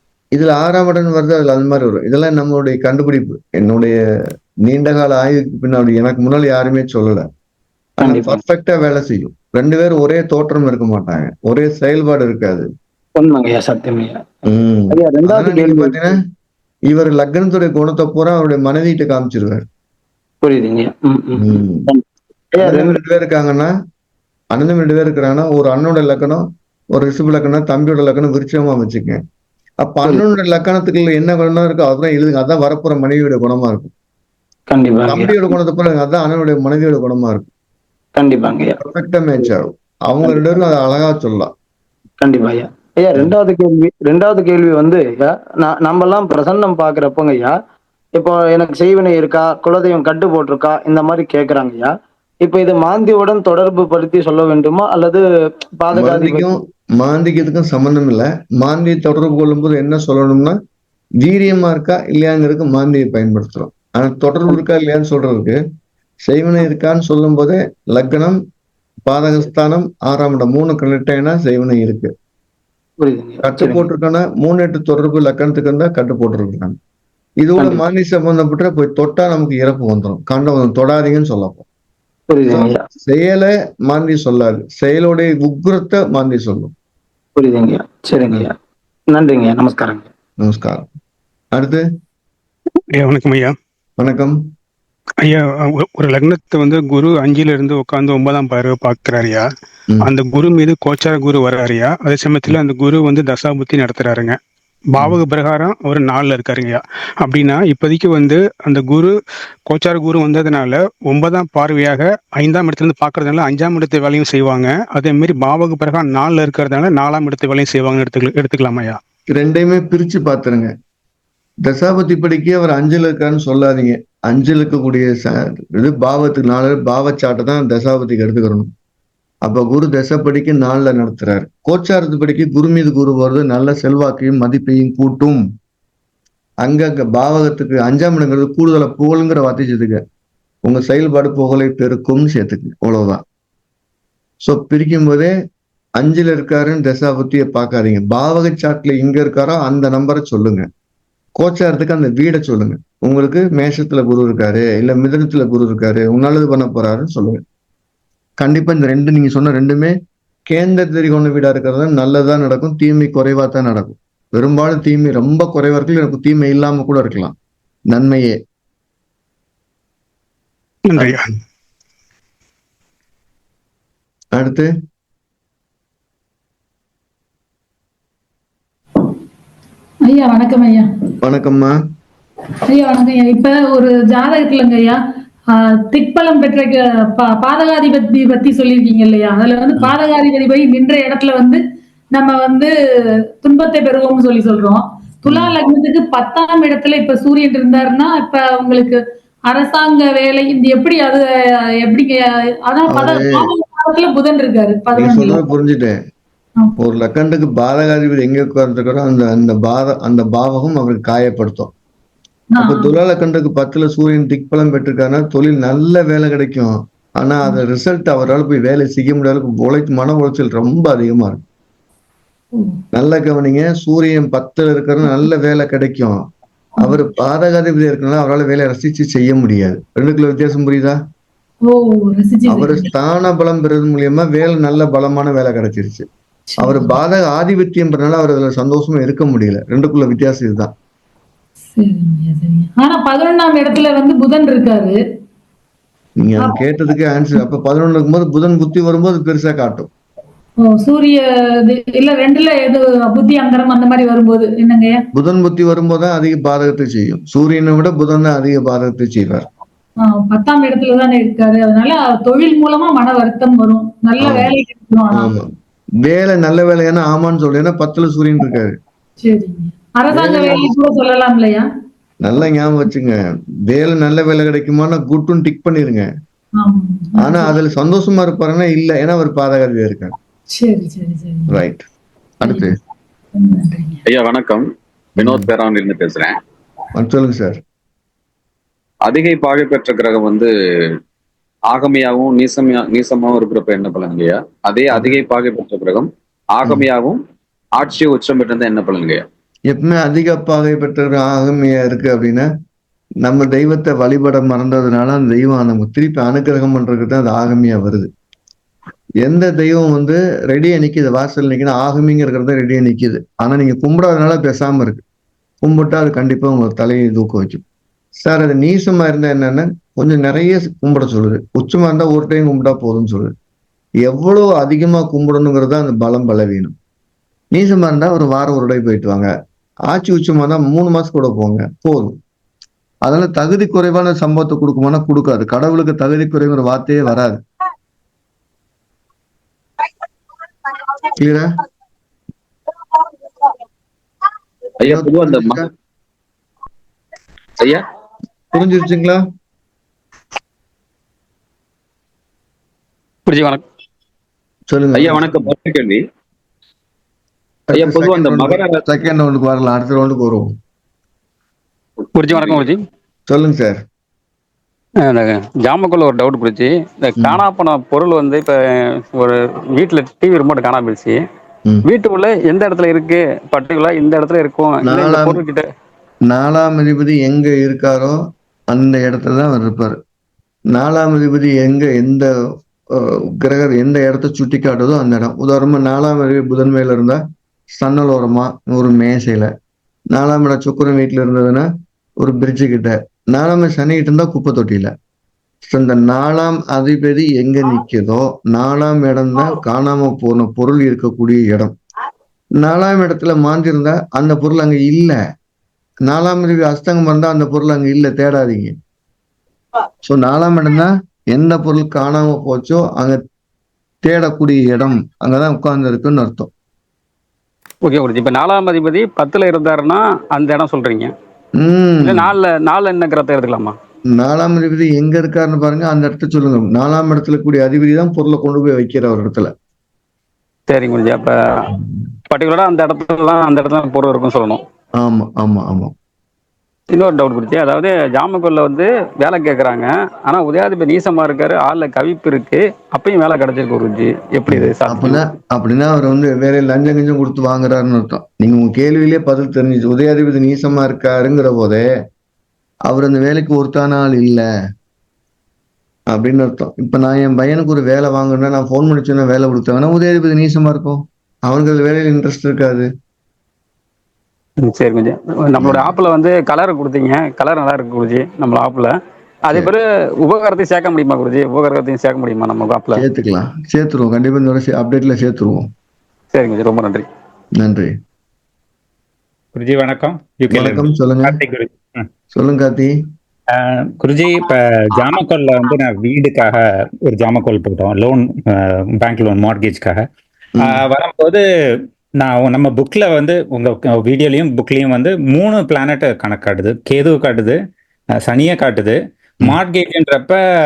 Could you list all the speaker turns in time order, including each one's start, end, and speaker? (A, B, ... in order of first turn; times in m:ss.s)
0:00.4-0:04.0 A
0:04.7-0:07.3 A
0:08.0-0:08.4 B
0:08.0-0:12.7 A
0:13.2-0:14.2 B
0:14.5-0:16.2 A
0:14.9-0:16.1 B
0:16.9-0:19.7 A
0:20.4-0:22.0 B
0:21.4-0:21.9 A
0:22.6-0:23.0 B
0:22.6-0:23.7 A
0:24.5-0:29.2 A
0:29.8-0:33.9 A
0:34.7-0:35.4 B
0:35.1-0:37.5 A
0:38.2-0:38.8 B
0:38.8-0:41.5 A
0:42.2-0:47.5 B
0:48.2-0:51.9 B
0:52.4-0:55.2 B
0:55.8-0:56.5 B
0:55.9-1:00.6 A
1:01.2-1:05.6 A
1:06.2-1:08.4 A
1:09.0-1:12.1 A
1:13.0-1:13.9 B
1:13.4-1:16.8 A
1:17.4-1:21.6 A
1:22.3-1:22.8 B
1:22.5-1:26.7 A
1:27.4-1:28.5 B
1:29.1-1:30.1 B
1:30.4-1:30.9 A
1:31.6-1:31.8 A
1:33.0-1:33.6 C
1:34.0-1:34.4 A
1:35.2-1:39.5 C
1:40.0-1:44.4 C
1:44.9-1:59.0 C
1:59.3-2:00.7 A
2:01.6-2:08.7 A
2:09.4-2:15.4 A
2:16.6-2:20.0 A
2:20.6-2:23.2 A
2:24.4-2:25.3 A
2:26.0-2:30.7 A
2:31.4-2:37.4 A
2:38.4-2:40.0 A
2:40.5-2:47.4 A
2:47.9-2:48.4 A
2:50.9-2:51.3 C
2:54.4-2:54.7 A
3:00.1-3:00.9 D
3:01.2-3:01.7 A
3:02.7-3:05.0 D
3:05.6-3:11.6 D
3:12.1-3:12.7 D
3:13.4-3:21.2 D
3:15.3-3:15.6 A
3:21.8-3:25.4 D
3:22.9-3:23.4 A
3:25.0-3:26.0 A
3:26.8-3:31.7 A
3:32.6-3:32.9 D
3:32.6-3:41.4 A
3:42.6-3:42.8 D
3:42.9-3:46.2 A
3:46.8-3:51.0 A
3:51.7-3:52.9 D
3:52.5-3:56.1 A
3:56.5-3:57.0 D
3:56.6-4:00.7 A
4:01.7-4:05.0 D
4:06.2-4:09.9 A
4:10.6-4:15.0 D
4:15.2-4:19.5 A
4:20.0-4:25.3 D
4:24.2-4:24.5 A
4:25.1-4:25.5 A
4:26.0-4:28.8 A
4:29.2-4:31.6 D
4:30.1-4:30.7 A
4:32.2-4:33.2 A
4:33.7-4:36.1 A
4:36.6-4:37.6 D
4:37.2-4:40.2 A
4:40.6-4:41.6 D
4:41.5-4:41.9 A
4:42.4-4:42.8 A
4:42.4-4:42.7 D
4:43.4-4:44.0 D
4:44.1-4:44.6 E
4:45.2-4:45.5 A
4:45.2-4:46.3 E
4:46.9-4:47.6 A
4:49.1-4:50.5 E
4:51.7-4:57.2 E
4:54.9-4:55.2 A
4:57.8-4:59.2 E
4:59.7-5:02.5 A
5:03.2-5:08.1 A
5:09.2-5:15.0 A
5:15.6-5:17.6 A
5:18.2-5:23.4 A
5:24.0-5:26.8 A
5:27.5-5:29.3 A
5:29.9-5:32.2 A
5:33.1-5:37.4 A
5:41.2-5:41.5 A
5:44.8-5:45.7 E
5:44.8-5:45.7 A
5:48.5-5:49.2 A
5:53.3-5:53.6 F
5:54.7-5:55.5 A
5:54.9-5:56.0 E
5:57.7-6:00.5 A
5:57.7-5:58.8 E
6:02.2-6:02.8 F
6:02.3-6:02.6 E
6:03.3-6:03.8 A
6:05.0-6:11.2 F
6:07.2-6:07.4 A
6:11.8-6:15.6 F
6:14.8-6:15.4 A
6:16.3-6:20.0 A
6:20.7-6:22.3 A
6:22.9-6:27.2 A
6:27.7-6:29.5 A
6:30.1-6:31.7 A
6:32.2-6:34.9 A
6:35.6-6:41.8 A
6:42.6-6:45.2 A
6:46.1-6:48.8 A
6:50.0-6:53.2 A
6:54.0-6:56.5 A
6:57.8-7:01.1 F
7:01.6-7:02.3 A
7:02.0-7:03.8 F
7:04.1-7:09.5 A
7:10.7-7:11.7 F
7:11.7-7:12.0 A
7:12.3-7:14.6 F
7:15.0-7:15.9 A
7:16.9-7:25.2 F
7:24.5-7:31.8 A
7:32.9-7:34.4 A
7:36.1-7:42.9 A
7:44.6-7:48.9 F
7:45.6-7:46.0 A
7:49.5-7:53.0 F
7:52.9-7:55.7 A
7:56.3-7:57.1 F
7:57.6-7:58.0 A
7:59.6-8:02.1 G
8:00.5-8:01.4 A
8:02.3-8:02.9 A
8:03.5-8:10.1 G
8:10.6-8:10.8 A
8:10.6-8:11.4 G
8:12.2-8:17.6 G
8:18.2-8:20.4 G